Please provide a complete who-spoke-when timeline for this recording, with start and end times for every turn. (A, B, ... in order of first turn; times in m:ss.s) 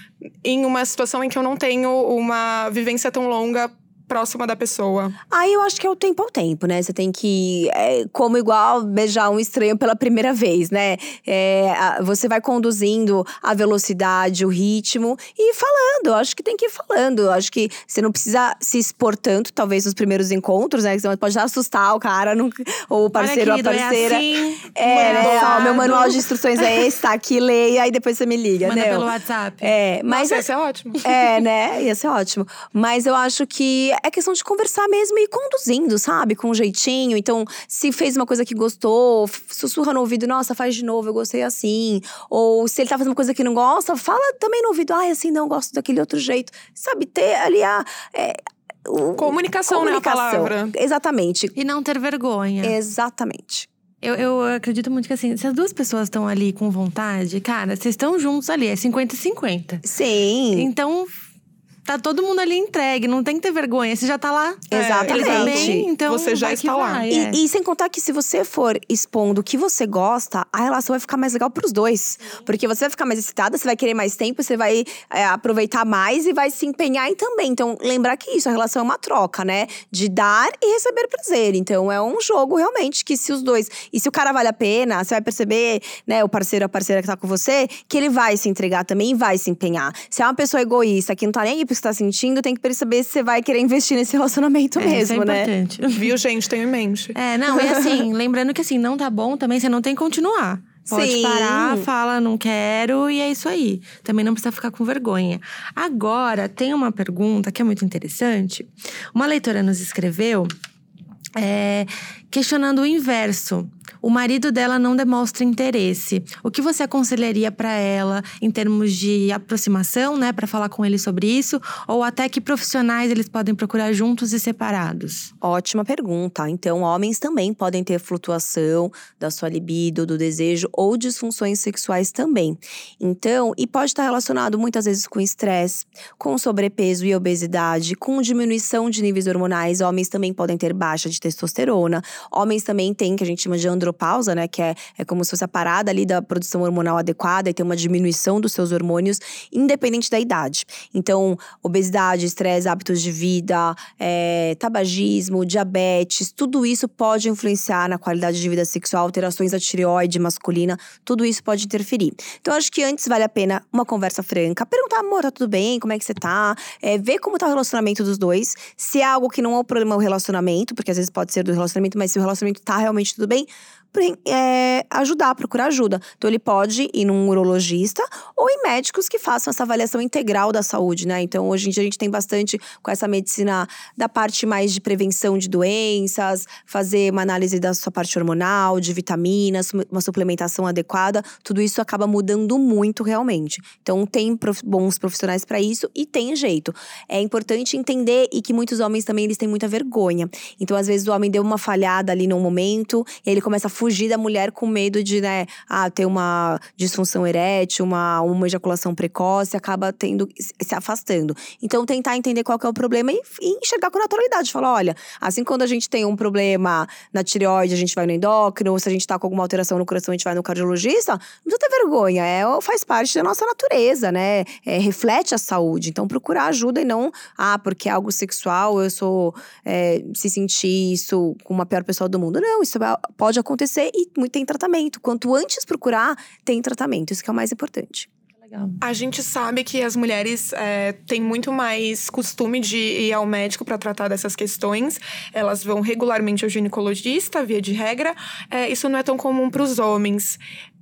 0:00.4-0:05.2 A
0:05.3-0:29.1 B
0:23.2-0:26.2 C
0:25.0-0:26.2 A
0:28.6-0:29.7 C
0:29.6-0:30.4 B
0:30.1-0:31.0 A
0:31.0-0:51.5 B
0:49.2-0:50.7 A
0:51.5-0:52.8 C
0:52.6-0:53.7 B
0:54.0-0:59.8 C
0:59.8-1:00.7 B
1:00.5-1:01.1 C
1:01.8-1:07.4 C
1:04.7-1:05.9 B
1:04.7-1:07.1 A
1:07.1-1:35.5 B
1:34.8-1:36.1 C
1:35.9-1:37.1 A
1:37.1-1:50.5 C
1:40.9-1:41.8 B
1:51.4-2:05.3 C
2:05.4-3:58.1 B
3:58.4-3:58.8 C
3:58.8-4:10.4 A